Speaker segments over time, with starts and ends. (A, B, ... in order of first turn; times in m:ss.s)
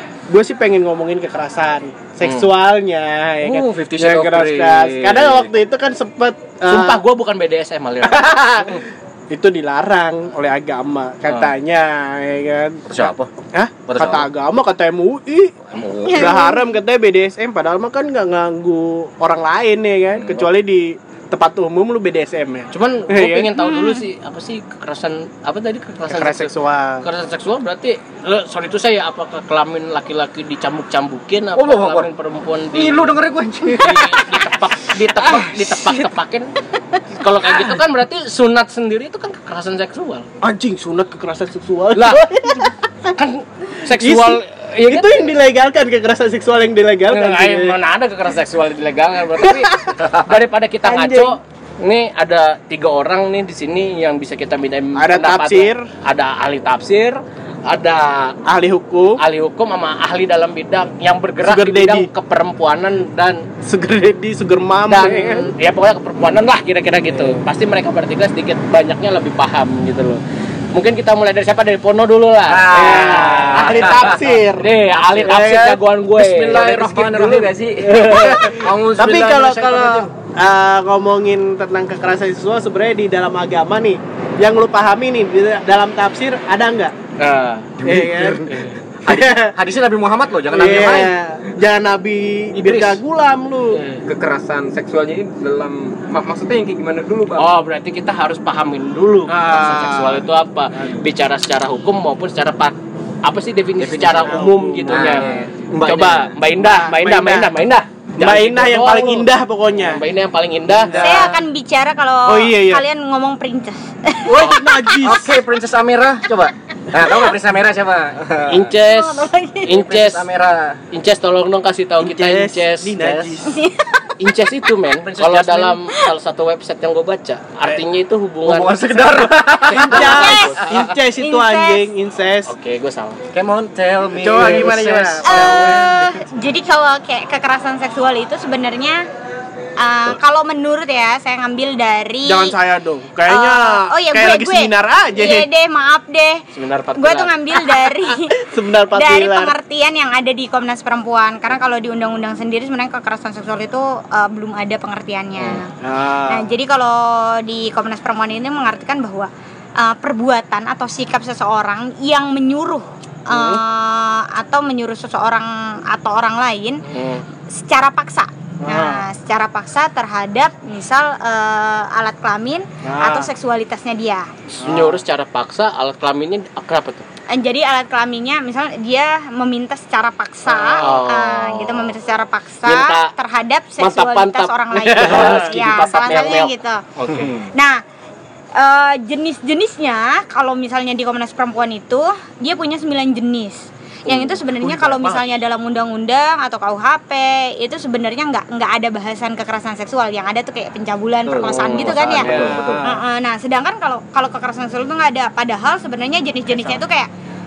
0:00.3-0:07.0 A
0:02.2-0:02.5 B
0:03.4-0:05.5 C
0:06.6-0:08.3 B
0:08.0-0:12.8 A
0:11.2-0:11.5 B
0:12.9-0:13.3 C
0:13.5-0:15.6 A
0:13.9-0:14.3 C
0:15.7-0:16.4 C
0:16.1-0:23.5 A
0:16.1-0:16.6 D
0:20.1-0:20.5 C
0:22.7-0:36.5 B
0:23.6-0:24.0 D
0:26.1-0:27.0 A
0:31.5-0:32.1 C
0:32.7-0:34.4 C
0:35.2-0:35.8 C
0:37.1-0:40.3 B
0:40.4-0:43.1 A
0:41.9-0:42.3 B
0:43.1-0:45.2 B
0:43.9-0:47.8 A
0:47.1-0:58.4 B
0:49.4-0:50.0 A
0:50.0-0:50.4 C
0:50.8-0:51.4 A
0:55.0-0:55.8 A
0:58.4-0:59.2 A
0:59.2-1:03.4 B
1:01.4-1:02.1 A
1:03.6-1:05.5 A
1:04.9-1:10.2 B
1:10.7-1:16.7 B
1:12.4-1:14.2 C
1:12.7-1:14.7 A
1:15.2-1:15.8 A
1:16.2-1:18.1 E
1:16.5-1:17.4 C
1:17.3-1:18.6 B
1:18.0-1:26.9 A
1:18.4-1:20.1 C
1:27.2-1:27.8 B
1:27.8-1:31.2 C
1:27.8-1:28.5 A
1:29.1-1:29.5 A
1:30.5-1:33.8 A
1:32.5-1:33.0 C
1:33.7-1:34.0 B
1:34.0-1:37.5 E
1:37.4-1:51.0 B
1:39.3-1:40.2 A
1:43.8-1:46.2 C
1:44.2-1:45.4 A
1:46.1-1:47.5 A
1:48.2-1:50.0 A
1:50.7-1:51.4 A
1:50.9-1:55.1 D
1:52.2-1:52.8 A
1:54.2-1:55.3 A
1:55.0-1:58.7 C
1:58.5-2:00.2 B
1:58.8-1:59.7 D
1:59.7-2:00.8 C
2:00.9-2:03.0 B
2:02.0-2:03.6 A
2:03.0-2:03.3 C
2:03.4-2:04.1 D
2:04.2-2:09.1 B
2:05.0-2:05.8 C
2:08.4-2:10.9 C
2:09.7-2:12.5 A
2:09.7-2:10.6 B
2:10.0-2:10.6 D
2:11.1-2:11.9 D
2:12.5-2:13.2 B
2:13.3-2:16.0 C
2:14.2-2:16.2 A
2:15.2-2:19.0 D
2:19.8-2:22.6 D
2:22.2-2:25.5 A
2:23.2-2:26.4 D
2:26.5-2:27.3 B
2:26.9-2:35.7 D
2:28.4-2:29.5 A
2:35.8-2:36.5 A
2:36.3-2:46.8 D
2:43.3-2:43.6 A
2:46.8-2:47.2 B
2:47.5-2:54.3 D
2:48.6-2:49.0 A
2:52.8-2:53.3 A
2:54.5-2:57.0 B
2:54.6-2:55.0 A
2:57.3-3:06.8 D
3:00.4-3:01.0 A
3:00.8-3:01.9 B
3:02.6-3:03.1 B
3:03.8-3:07.3 B
3:04.8-3:06.3 A
3:07.1-3:07.4 C
3:07.5-3:07.8 D
3:08.6-3:27.1 D
3:14.4-3:15.2 B
3:21.2-3:22.8 C
3:21.4-3:22.6 B
3:22.1-3:23.0 A